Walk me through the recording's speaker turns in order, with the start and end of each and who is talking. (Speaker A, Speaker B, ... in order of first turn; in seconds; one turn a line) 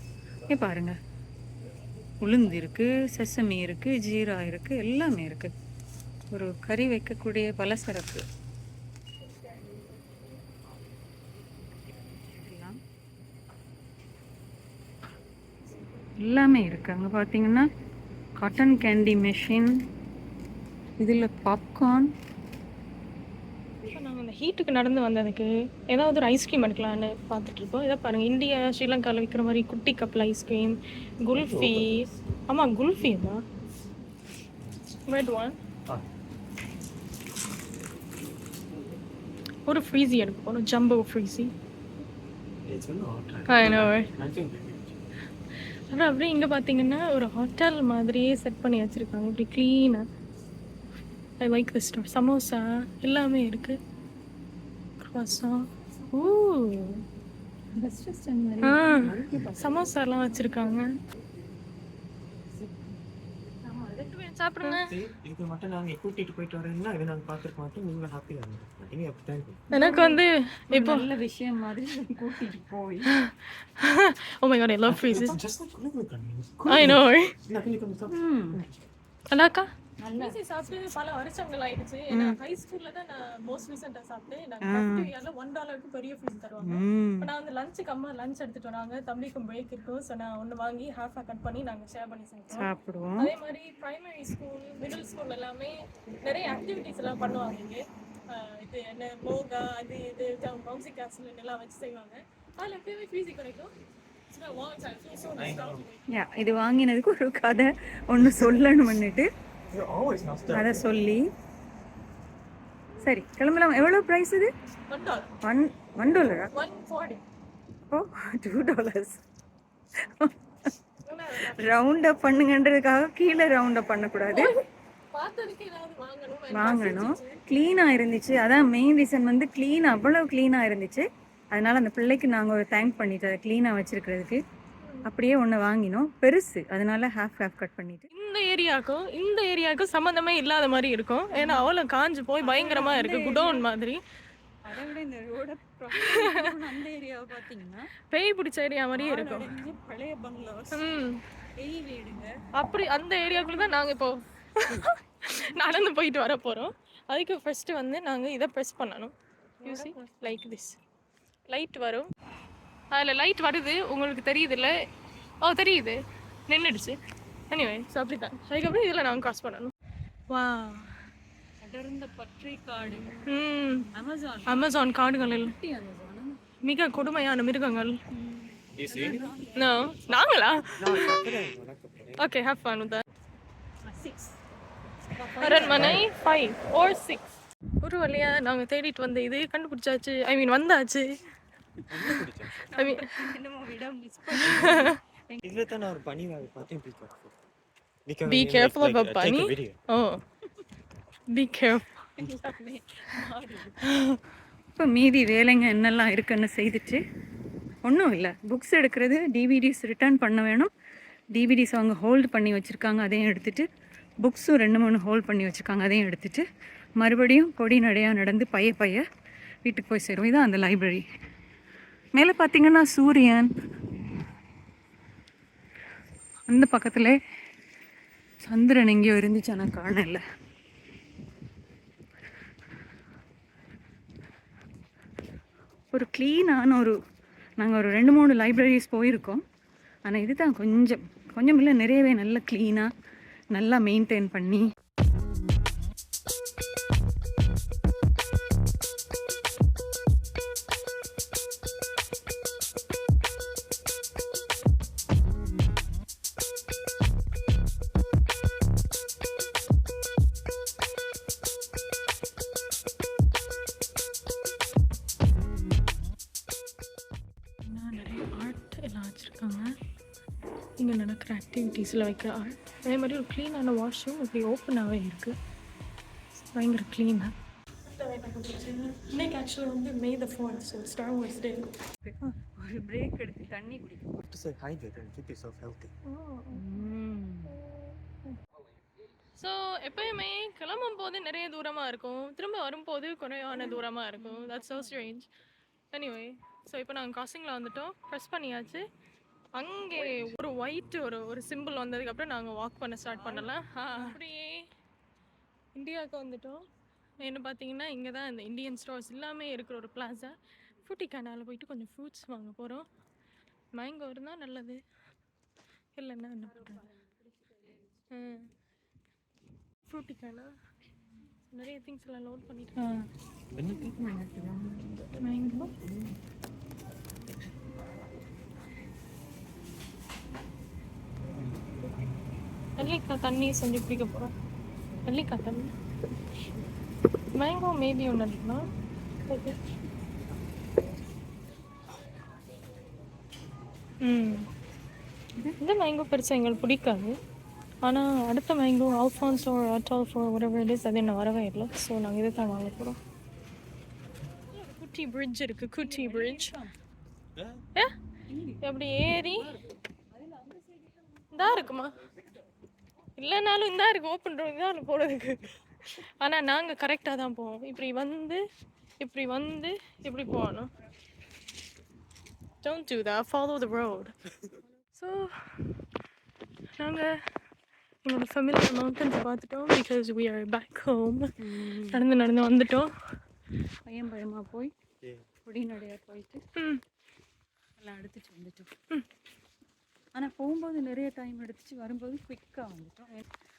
Speaker A: 0.5-0.9
Speaker A: 2.2-5.5
Speaker A: 6.3-8.2
Speaker A: 12.3-12.8
Speaker A: 16.2-17.7
Speaker A: 18.4-19.7
Speaker A: 21.0-22.1
Speaker B: 23.9-33.4
Speaker C: 31.4-32.1
Speaker B: 35.1-35.5
Speaker B: 39.7-41.5
Speaker C: 42.6-45.0
Speaker B: 43.5-44.1
Speaker B: 45.9-50.0
Speaker B: 51.4-53.8
Speaker B: 55.1-57.0
Speaker A: 57.7-60.9
Speaker B: 58.6-60.9
Speaker C: 58.9-59.9
Speaker A: 63.6-64.1
Speaker B: 64.0-64.9
Speaker C: 64.9-69.6
Speaker A: 69.7-73.1
Speaker B: 69.7-71.1
Speaker B: 73.1-75.4
Speaker C: 74.8-78.7
Speaker B: 76.7-77.3
Speaker A: 78.1-78.6
Speaker B: 79.3-103.7
Speaker A: 80.0-80.4
Speaker A: 82.1-82.4
Speaker A: 84.6-85.1
Speaker A: 86.6-87.3
Speaker A: 92.5-93.3
Speaker B: 104.3-106.0
Speaker C: 105.3-105.8
Speaker A: 106.1-109.3
Speaker C: 108.2-108.6
Speaker C: 109.7-110.9
Speaker A: 110.5-111.3
Speaker A: 113.0-114.5
Speaker B: 114.9-115.3
Speaker A: 115.4-116.5
Speaker B: 116.5-117.2
Speaker A: 117.9-119.2
Speaker A: 120.0-120.7
Speaker B: 121.0-121.8
Speaker A: 121.5-124.5
Speaker B: 124.3-127.4
Speaker A: 126.5-134.4
Speaker A: 135.1-138.1
Speaker B: 138.1-144.0
Speaker A: 141.3-141.7
Speaker A: 142.4-143.7
Speaker A: 144.7-147.9
Speaker B: 146.0-146.5
Speaker B: 148.1-149.6
Speaker A: 148.9-150.9
Speaker B: 150.7-151.2
Speaker A: 151.6-152.3
Speaker B: 152.5-160.8
Speaker A: 159.6-160.6
Speaker B: 161.5-162.1
Speaker B: 162.9-164.7
Speaker B: 165.4-167.0
Speaker B: 167.5-169.7
Speaker B: 170.3-171.0
Speaker A: 171.6-173.3
Speaker B: 173.2-173.9
Speaker A: 173.9-176.4
Speaker B: 174.5-175.5
Speaker B: 176.6-177.9
Speaker A: 178.1-179.9
Speaker C: 178.8-179.3
Speaker B: 179.5-181.2
Speaker C: 180.8-182.2
Speaker B: 182.2-183.0
Speaker A: 183.8-184.4
Speaker A: 185.1-186.0
Speaker B: 185.4-187.3
Speaker C: 185.7-186.0
Speaker B: 187.8-191.1
Speaker C: 191.9-192.7
Speaker A: 191.9-195.4
Speaker B: 192.7-193.1
Speaker B: 194.3-194.9
Speaker C: 195.4-197.3
Speaker C: 198.1-199.8
Speaker B: 198.3-200.2
Speaker B: 201.3-202.0
Speaker A: 202.2-203.8
Speaker B: 203.8-204.2
Speaker A: 204.8-207.0
Speaker A: 207.8-210.7
Speaker A: 211.3-213.7
Speaker A: 214.2-216.4
Speaker A: 217.0-219.0
Speaker A: 219.6-221.0
Speaker A: 222.2-223.5
Speaker A: 226.5-227.2
Speaker A: 228.5-230.2
Speaker A: 235.9-236.9
Speaker A: 237.6-239.4
Speaker A: 240.1-242.9
Speaker A: 243.5-244.7
Speaker B: 267.6-269.7
Speaker B: 270.8-275.4
Speaker B: 276.5-277.3
Speaker B: 277.9-281.7
Speaker A: 282.0-284.2
Speaker C: 284.3-285.9
Speaker B: 286.0-286.6
Speaker A: 286.5-287.6
Speaker B: 287.5-288.4
Speaker B: 289.4-295.3
Speaker A: 293.5-295.1
Speaker B: 295.9-298.9
Speaker B: 299.6-304.7
Speaker A: 303.1-304.2
Speaker B: 305.7-306.6
Speaker B: 307.2-312.9
Speaker B: 313.7-314.8
Speaker B: 315.9-316.8
Speaker B: 318.1-318.5
Speaker B: 319.9-320.5
Speaker B: 321.5-322.8
Speaker A: 322.8-323.0
Speaker C: 323.5-324.2
Speaker A: 323.9-324.8
Speaker B: 325.2-325.7
Speaker B: 332.8-334.3
Speaker B: 335.0-335.7
Speaker B: 337.3-338.7
Speaker B: 339.3-339.6
Speaker B: 344.0-344.5
Speaker B: 345.6-347.1
Speaker B: 347.8-353.0
Speaker B: 354.5-356.5
Speaker A: 355.8-356.8
Speaker C: 357.3-357.6
Speaker A: 358.3-358.6
Speaker B: 358.6-359.5
Speaker A: 359.1-361.8
Speaker B: 361.3-362.0
Speaker B: 363.2-368.4
Speaker B: 369.0-370.7
Speaker B: 372.6-374.1
Speaker B: 374.9-375.7
Speaker B: 376.8-377.1
Speaker B: 378.0-381.3
Speaker A: 381.4-382.0
Speaker B: 381.9-382.9
Speaker A: 383.9-384.7
Speaker A: 385.4-386.4
Speaker B: 386.6-386.8
Speaker A: 387.8-388.7
Speaker A: 390.1-393.2